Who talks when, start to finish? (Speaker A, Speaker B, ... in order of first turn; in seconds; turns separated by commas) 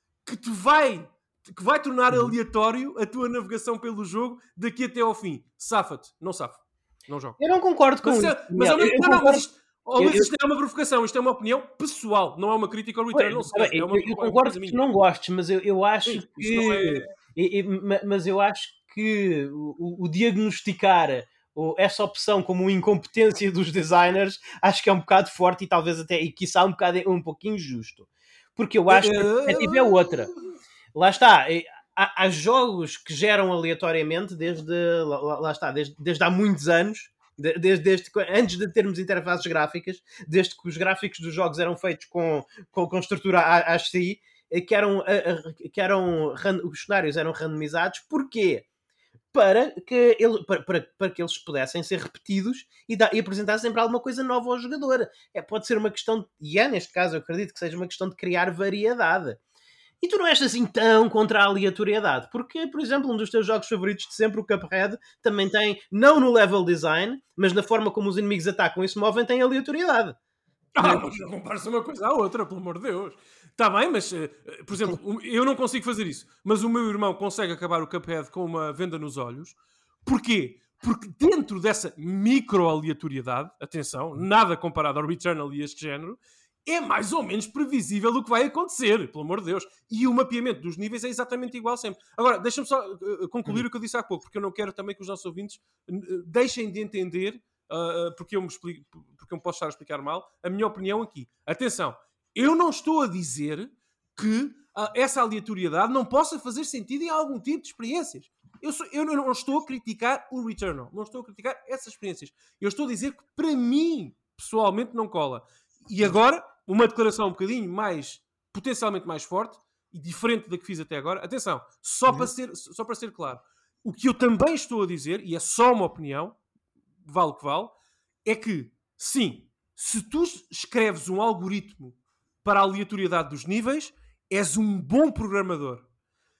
Speaker A: 0.3-7.4, Speaker B: 7.4-10.3, Speaker A: 8.0-14.8, Speaker B: 13.1-30.3, Speaker A: 16.1-17.1, Speaker A: 28.9-30.5, Speaker B: 30.9-48.7, Speaker B: 49.3-59.4, Speaker B: 60.0-70.2, Speaker A: 70.8-126.4, Speaker B: 70.8-71.2, Speaker A: 127.0-127.7, Speaker A: 128.2-135.9